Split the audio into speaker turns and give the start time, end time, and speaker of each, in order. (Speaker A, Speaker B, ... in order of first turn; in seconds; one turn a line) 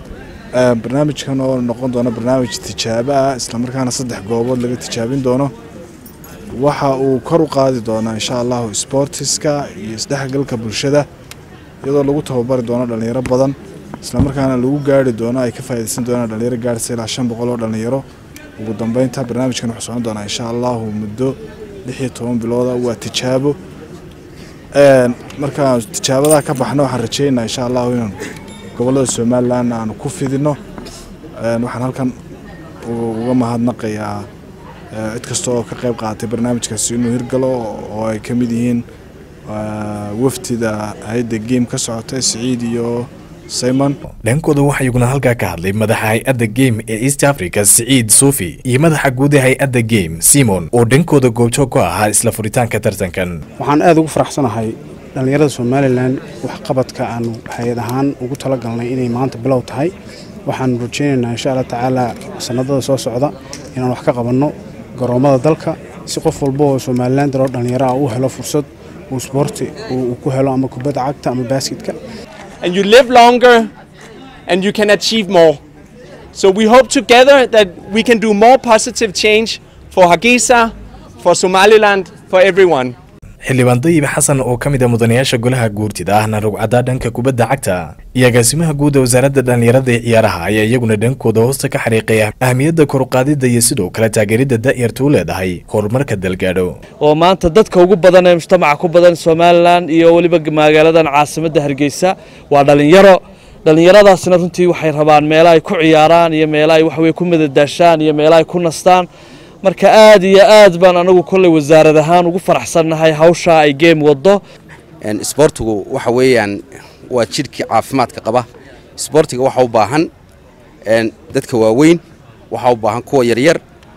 Speaker A: 0.6-5.5
Speaker A: 6.6-11.1
Speaker A: 11.8-18.0
Speaker A: 18.6-23.6
Speaker A: 24.7-28.2
Speaker A: 28.8-30.6
Speaker A: 31.4-32.1
Speaker A: 32.8-34.3
Speaker A: 34.9-38.8
Speaker A: 39.5-43.9
Speaker B: 44.2-53.4
Speaker C: 53.6-59.9
Speaker C: 60.5-71.9
Speaker D: 72.6-73.7
Speaker D: 74.5-75.6
Speaker D: 76.3-83.0
Speaker B: 83.4-96.7
Speaker E: 97.0-109.0
Speaker E: 109.6-114.4
Speaker F: 115.0-120.1
Speaker F: 120.8-123.6